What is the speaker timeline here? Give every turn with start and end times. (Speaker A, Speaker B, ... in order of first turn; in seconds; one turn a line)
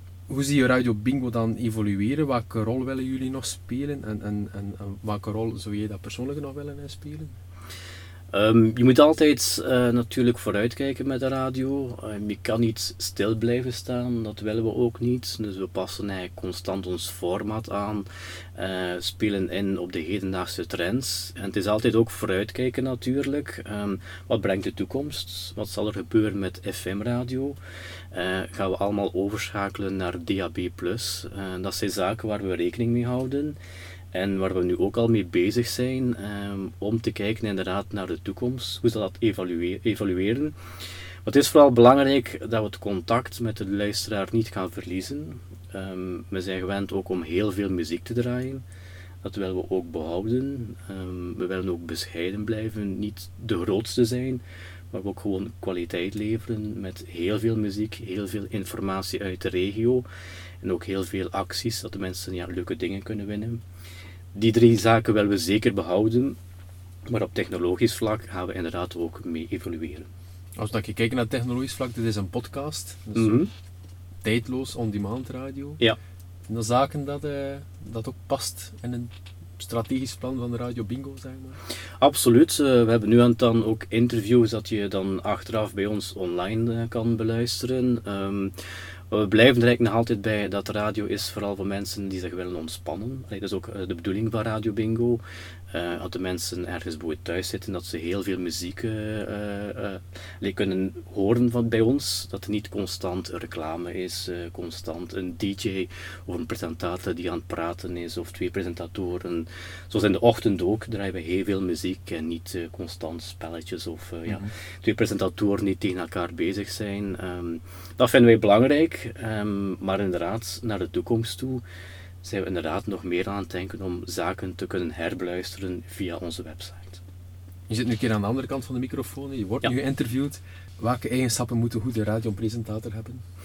Speaker A: 0.3-7.3
Speaker B: 8.3-27.6
Speaker B: 28.1-33.6
Speaker B: 34.1-40.6
Speaker B: 41.2-48.6
Speaker B: 49.2-60.1
Speaker B: 60.6-63.6
Speaker B: 64.3-66.4
Speaker B: 67.1-70.1
Speaker A: 70.6-73.4
Speaker B: 73.2-73.5
Speaker A: 74.2-75.8
Speaker A: 76.5-81.6
Speaker B: 82.0-88.5
Speaker B: 89.1-121.6
Speaker A: 114.3-114.5
Speaker B: 122.2-127.0
Speaker A: 127.7-133.2